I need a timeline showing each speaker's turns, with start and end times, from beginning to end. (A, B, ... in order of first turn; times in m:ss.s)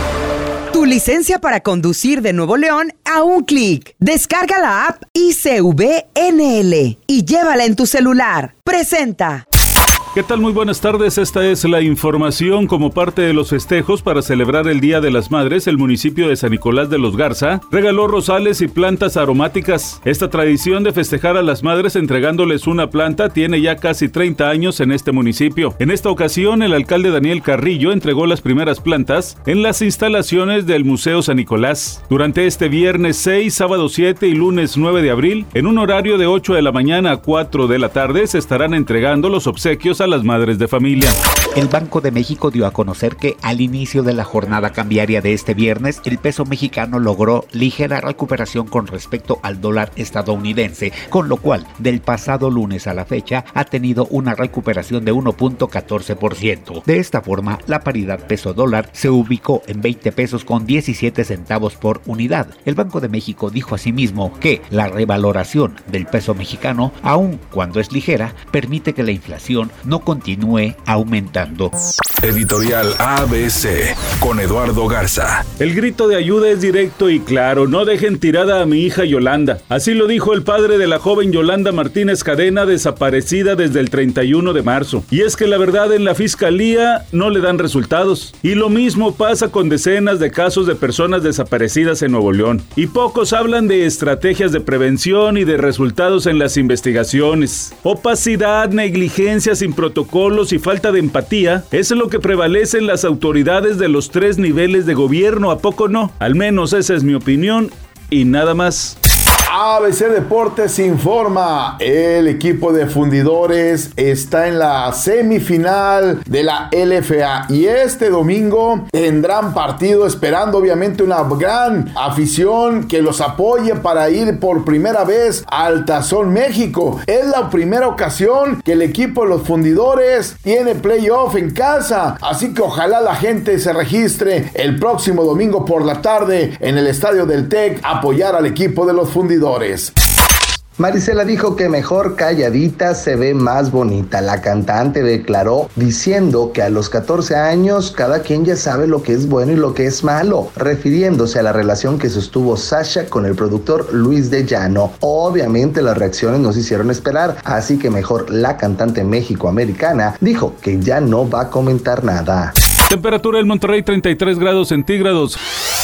0:00.7-0:09.4 A
0:10.1-0:41.2 B
0:41.6-1:11.7 C
1:12.2-1:15.5 D
1:15.6-1:49.0 B
1:49.5-2:19.9 E
2:20.8-2:42.5 F
2:42.9-2:45.4 B